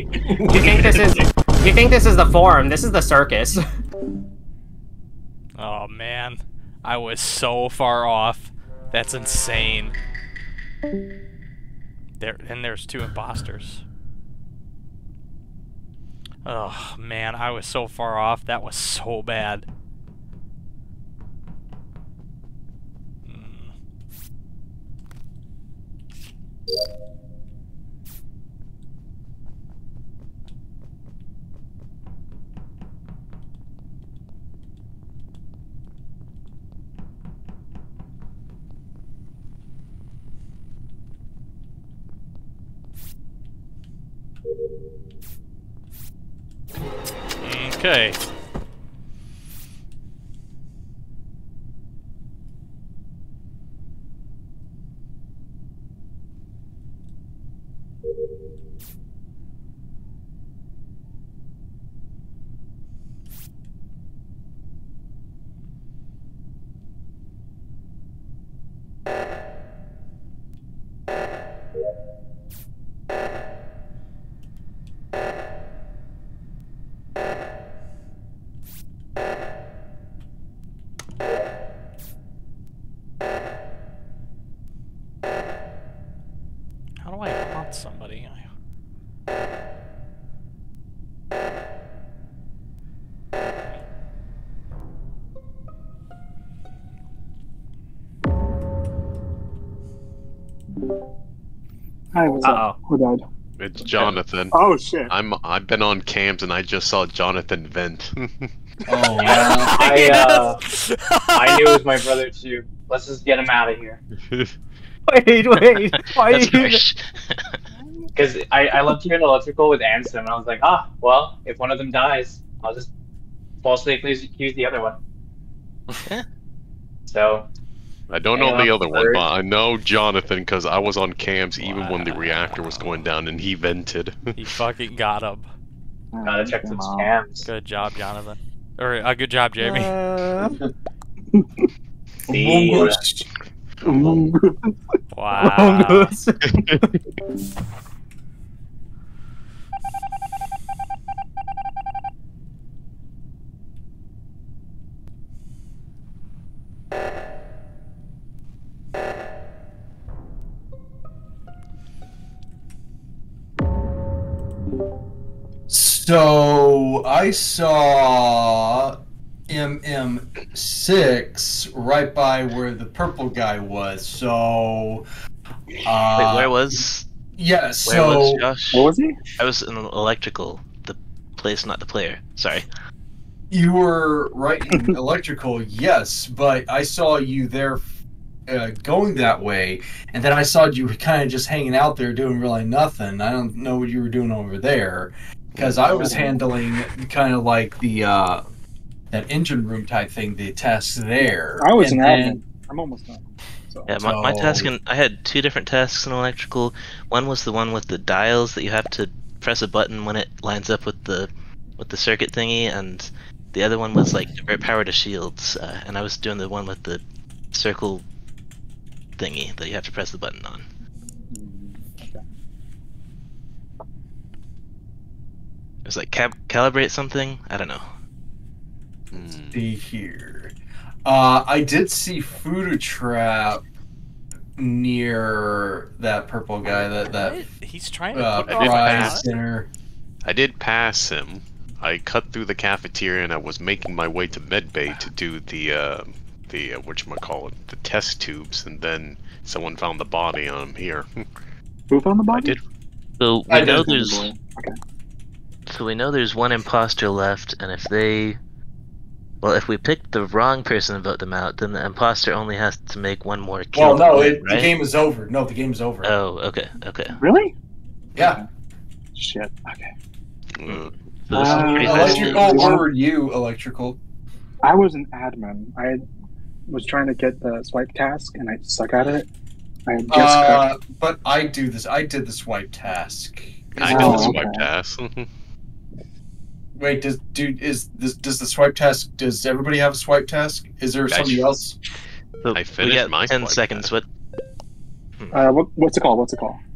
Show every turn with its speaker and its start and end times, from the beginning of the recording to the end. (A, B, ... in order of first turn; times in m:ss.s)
0:00.5-0:03.6 A
0:00.8-0:01.1 B
0:05.6-0:10.0 C
0:12.2-0:13.8 C
0:16.4-0:19.7 C
0:23.3-0:23.7 C
0:47.4-0:48.2 C
1:27.0-1:28.4 C
1:42.1-1:43.2 D
1:42.4-1:42.8 A
1:43.6-1:44.6 E
1:44.5-1:45.1 D
1:45.1-1:48.5 E
1:48.9-1:49.7 F
1:49.2-1:50.6 B
1:49.5-1:51.8 C
1:51.3-1:54.0 B
1:54.2-1:54.5 E
1:55.1-1:56.8 A
1:56.2-1:57.4 G
1:58.2-2:02.9 B
2:03.6-2:05.0 B
2:07.1-2:07.5 B
2:08.1-2:14.3 E
2:08.3-2:09.2 B
2:11.6-2:13.0 C
2:14.4-2:15.5 C
2:16.1-2:17.1 D
2:16.2-2:17.5 B
2:17.4-2:20.0 C
2:19.6-2:20.6 A
2:21.3-2:21.7 D
2:22.3-2:23.3 F
2:22.3-2:23.0 B
2:23.8-2:24.7 D
2:25.1-2:26.2 C
2:25.4-2:26.8 A
2:26.5-2:26.8 E
2:45.7-2:48.9 F
2:49.5-2:55.0 F
2:55.8-2:56.8 F
2:56.2-2:57.0 G
2:57.4-2:58.5 F
2:57.8-2:58.9 G
2:58.7-2:59.2 D
2:59.4-3:02.7 G
3:03.5-3:07.9 F
3:08.5-3:18.4 F
3:15.5-3:15.8 E
3:15.8-3:16.4 D
3:19.1-3:22.4 F
3:21.2-3:24.0 D
3:23.9-3:37.0 G
3:24.0-3:24.7 F
3:37.5-3:38.0 G
3:39.2-3:40.6 G
3:41.3-3:42.2 D
3:45.9-3:47.9 G
3:49.1-3:49.6 E
3:49.3-3:50.5 F
3:51.0-3:53.6 F
3:54.6-3:57.4 F
3:57.1-3:59.3 C
3:58.1-3:59.7 F
3:58.5-3:59.2 E
4:00.2-4:11.1 E
4:11.9-4:12.6 D
4:12.3-4:12.6 E
4:13.2-4:14.3 G
4:13.5-4:14.1 F
4:13.8-4:14.7 D
4:15.7-4:18.4 G
4:19.4-4:24.7 G
4:23.7-4:26.1 F
4:26.0-4:27.2 G
4:27.2-4:27.5 D
4:28.2-4:28.4 F
4:28.2-4:28.4 D
4:29.1-4:29.9 D
4:30.6-4:30.9 E
4:30.7-4:32.6 G
4:31.3-4:32.9 D
4:31.4-4:34.0 F
4:34.6-4:36.0 D
4:36.7-4:39.3 D
4:39.9-4:40.7 D
4:40.1-4:44.4 F
4:43.7-4:45.3 E
4:43.8-4:44.7 D
4:46.8-4:51.8 F
4:51.1-4:51.5 E
4:52.4-4:54.0 G
4:52.5-4:53.9 E
4:55.3-4:56.6 D